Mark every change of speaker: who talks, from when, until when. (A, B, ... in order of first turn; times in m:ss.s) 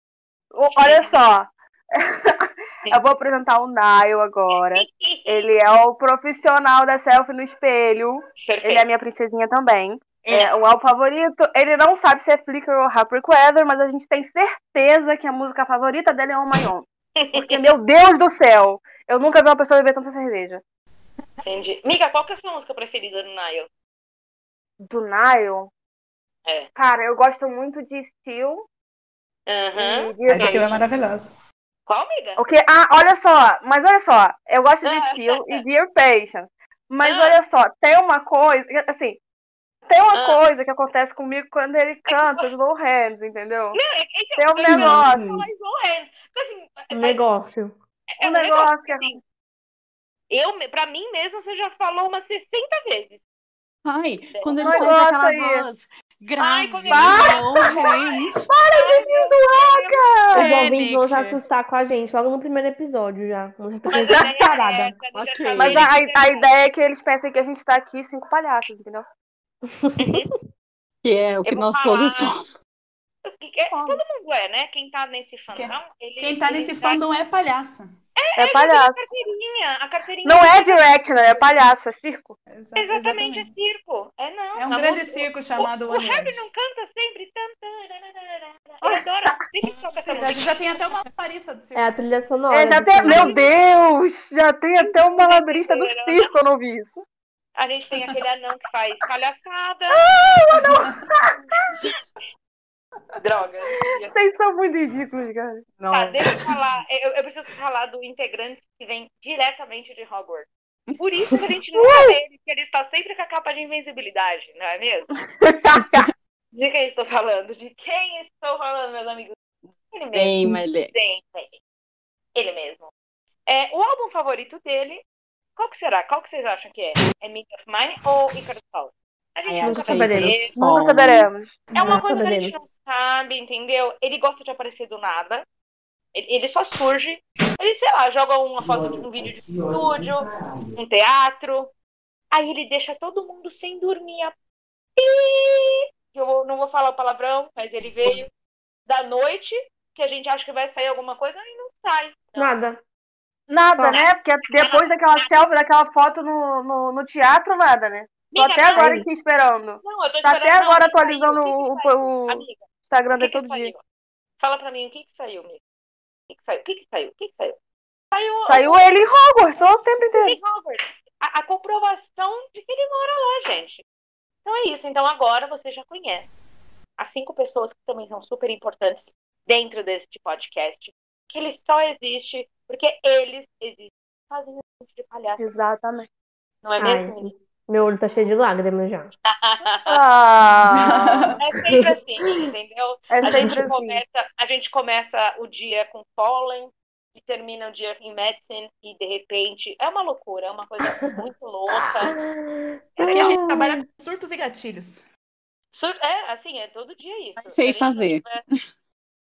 0:00.5-0:20.6 A
0:00.7-0:01.2 B
0:04.7-0:05.5 B
0:08.4-0:08.9 B
0:10.2-0:10.5 B
0:17.2-0:17.7 B
0:21.4-0:23.7 B
0:24.8-0:25.7 A
0:26.4-0:26.7 B
0:26.8-0:28.7 A
0:29.5-0:30.8 B
0:29.8-0:30.7 A
0:30.2-0:31.3 C
0:31.9-0:32.4 B
0:32.4-0:39.2 A
0:34.8-0:35.6 B
0:37.0-0:37.4 B
0:39.9-0:43.8 A
0:40.1-0:40.4 B
0:42.0-0:42.5 B
0:43.7-0:47.3 B
0:44.4-0:45.2 A
0:44.6-0:45.5 D
0:46.9-0:47.7 E
0:48.1-0:49.2 B
0:48.2-0:49.2 A
0:50.3-0:53.2 B
0:53.8-0:58.5 D
0:54.3-0:54.9 B
0:54.6-0:55.7 A
0:56.4-1:00.0 B
0:56.9-0:57.4 A
0:58.5-1:00.5 A
1:00.3-1:01.4 D
1:00.3-1:04.9 E
1:03.9-1:06.5 B
1:03.9-1:04.2 A
1:05.1-1:05.9 D
1:05.6-1:09.0 A
1:09.8-1:10.1 E
1:10.0-1:10.3 B
1:11.0-1:12.5 D
1:11.4-1:12.3 B
1:13.2-1:17.0 B
1:13.7-1:14.0 A
1:15.5-1:17.9 C
1:18.2-1:21.4 B
1:18.4-1:19.0 A
1:20.2-1:22.4 A
1:22.5-1:23.5 C
1:22.8-1:30.5 B
1:24.5-1:26.4 C
1:30.1-1:31.9 C
1:31.8-1:33.3 E
1:32.5-1:37.0 A
1:33.0-1:33.4 B
1:35.2-1:36.3 B
1:37.6-1:40.0 B
1:39.9-1:41.4 A
1:40.5-1:40.9 C
1:41.7-1:42.0 D
1:43.2-1:44.2 B
1:44.1-1:45.6 A
1:45.8-1:46.5 D
1:45.9-1:55.1 B
1:51.7-1:52.2 A
1:55.4-1:56.1 A
1:56.5-1:59.4 B
1:59.9-2:00.3 B
2:00.1-2:00.9 D
2:00.9-2:01.6 B
2:02.3-2:02.9 B
2:03.4-2:05.0 B
2:05.6-2:10.5 B
2:09.4-2:11.3 D
2:09.6-2:10.5 E
2:10.6-2:11.6 A
2:11.7-2:12.0 C
2:11.8-2:15.4 B
2:11.8-2:12.6 E
2:16.1-2:21.7 B
2:22.3-2:24.3 B
2:25.0-2:28.3 B
2:28.8-2:32.6 B
2:32.4-2:32.8 E
2:33.5-2:43.7 A
2:33.9-2:35.4 B
2:38.3-2:39.0 B
2:38.7-2:39.1 E
2:39.8-2:43.8 B
2:44.4-2:45.6 B
2:46.3-2:47.6 B
2:48.1-2:48.8 B
2:48.4-2:50.4 A
2:50.1-2:53.8 B
2:54.4-2:56.3 B
2:57.0-3:05.5 B
3:05.4-3:06.1 A
3:06.6-3:07.3 B
3:06.8-3:09.1 E
3:09.2-3:10.0 B
3:09.8-3:11.2 A
3:10.7-3:11.4 C
3:11.4-3:22.2 B
3:13.1-3:14.0 A
3:21.7-3:23.8 E
3:23.0-3:23.3 B
3:23.0-3:25.0 C
3:25.7-3:28.4 B
3:27.4-3:28.6 D